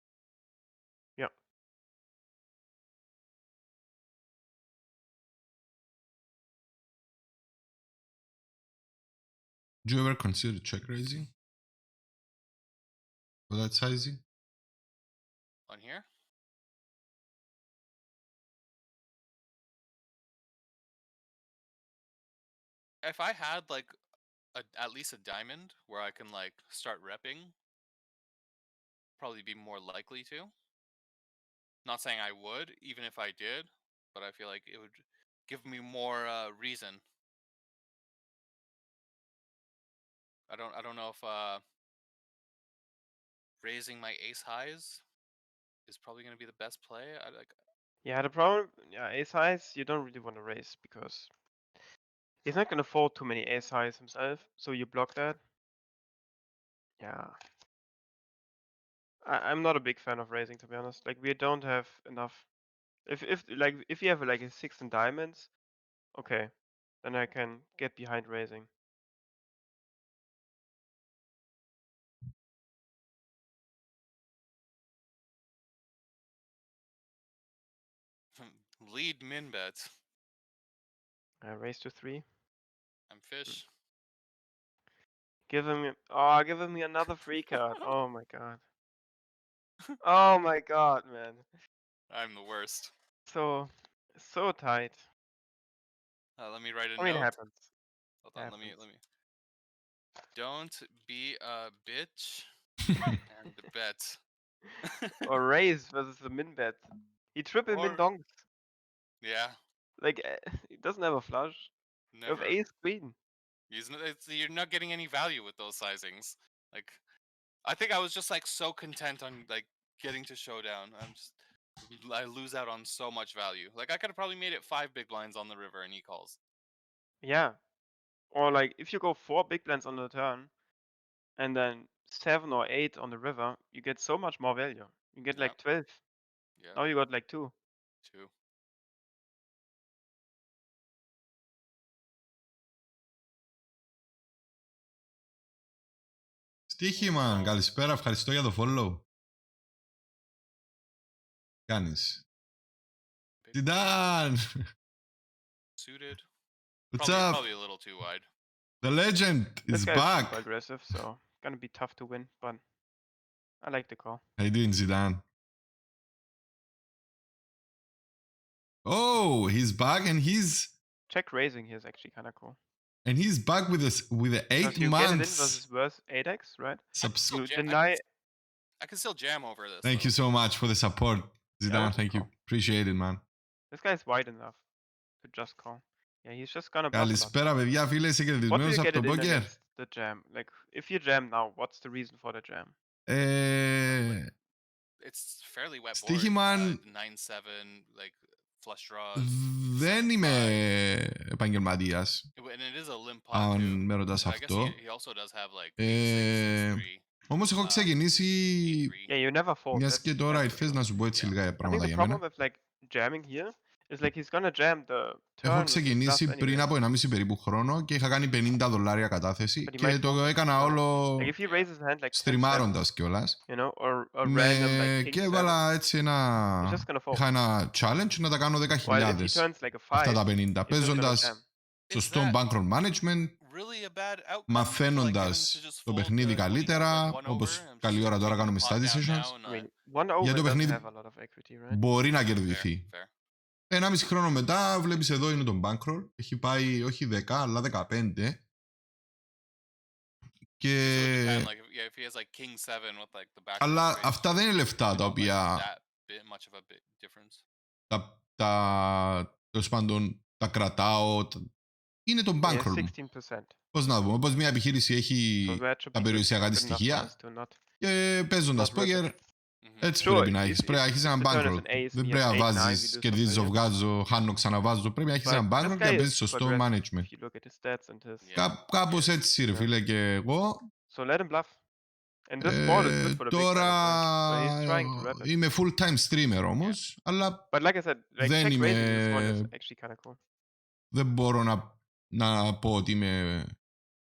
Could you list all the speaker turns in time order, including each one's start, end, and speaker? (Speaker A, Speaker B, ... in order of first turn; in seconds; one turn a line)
Speaker A: 9.8-11.3
Speaker A: 13.5-14.2
Speaker B: 15.7-16.1
Speaker B: 23.0-23.9
Speaker B: 24.6-27.5
Speaker B: 29.2-30.5
Speaker B: 31.9-37.0
Speaker B: 40.5-41.6
Speaker B: 43.6-45.0
Speaker B: 45.9-47.5
Speaker C: 48.0-51.3
Speaker C: 52.4-55.4
Speaker C: 57.0-57.4
Speaker C: 59.2-62.5
Speaker C: 63.1-65.5
Speaker C: 66.1-68.7
Speaker B: 78.4-79.9
Speaker C: 81.4-82.2
Speaker B: 83.1-83.7
Speaker C: 85.5-88.6
Speaker C: 90.0-91.5
Speaker B: 92.1-92.9
Speaker C: 93.3-95.1
Speaker B: 96.4-97.3
Speaker C: 97.0-97.7
Speaker B: 98.2-99.0
Speaker C: 98.4-98.8
Speaker B: 100.3-102.5
Speaker A: 102.9-103.2
Speaker B: 103.3-104.2
Speaker C: 105.2-108.4
Speaker B: 107.7-108.1
Speaker B: 109.2-109.6
Speaker C: 110.0-111.7
Speaker B: 112.1-112.6
Speaker C: 112.3-113.2
Speaker B: 113.7-117.0
Speaker B: 117.7-126.4
Speaker C: 127.2-127.6
Speaker C: 128.3-130.5
Speaker C: 131.4-136.0
Speaker B: 135.3-135.6
Speaker B: 136.6-136.8
Speaker C: 136.8-137.5
Speaker B: 138.0-138.3
Speaker A: 146.7-149.0
Speaker B: 146.9-147.6
Speaker A: 151.7-152.2
Speaker B: 153.4-153.7
Speaker A: 153.5-154.4
Speaker B: 155.8-156.3
Speaker A: 156.9-157.4
Speaker B: 156.9-158.3
Speaker A: 158.8-160.4
Speaker C: 159.7-162.6
Speaker C: 163.6-164.2
Speaker A: 164.4-165.2
Speaker A: 168.9-170.7
Speaker C: 171.1-172.6
Speaker A: 173.1-175.6
Speaker C: 174.6-178.0
Speaker A: 177.0-177.3
Speaker B: 177.2-178.0
Speaker B: 178.8-180.2
Speaker A: 179.8-183.2
Speaker C: 181.7-182.3
Speaker C: 183.7-184.6
Speaker C: 185.2-187.4
Speaker A: 186.9-189.5
Speaker C: 188.5-192.7
Speaker A: 193.1-194.3
Speaker B: 193.8-194.3
Speaker B: 195.0-200.7
Speaker A: 195.9-196.8
Speaker A: 199.2-202.2
Speaker B: 202.4-207.0
Speaker A: 203.3-204.8
Speaker A: 205.8-208.9
Speaker B: 207.6-207.9
Speaker B: 208.6-209.1
Speaker C: 209.1-210.9
Speaker A: 209.7-212.2
Speaker B: 211.1-211.4
Speaker C: 211.6-216.7
Speaker A: 215.4-221.3
Speaker C: 219.7-222.8
Speaker B: 220.9-221.7
Speaker A: 222.1-223.4
Speaker C: 223.5-225.6
Speaker A: 224.2-231.3
Speaker C: 226.6-227.2
Speaker C: 228.8-231.4
Speaker B: 231.9-232.4
Speaker A: 231.9-233.4
Speaker B: 233.4-239.7
Speaker A: 234.5-239.3
Speaker C: 239.4-241.8
Speaker A: 240.2-240.8
Speaker A: 241.7-242.8
Speaker B: 242.3-243.1
Speaker A: 243.7-248.4
Speaker A: 250.6-251.5
Speaker B: 250.8-257.4
Speaker A: 253.6-255.7
Speaker A: 257.9-261.4
Speaker A: 262.1-262.9
Speaker C: 262.4-263.6
Speaker A: 263.7-267.1
Speaker C: 265.4-267.6
Speaker A: 267.8-269.1
Speaker C: 268.5-269.2
Speaker B: 269.6-270.1
Speaker A: 269.8-277.1
Speaker C: 270.0-273.6
Speaker C: 275.2-278.3
Speaker B: 278.2-279.2
Speaker A: 278.4-280.6
Speaker C: 279.5-279.7
Speaker C: 280.9-281.6
Speaker C: 282.3-285.3
Speaker A: 282.4-287.5
Speaker C: 287.5-290.2
Speaker A: 288.2-289.5
Speaker A: 290.9-293.5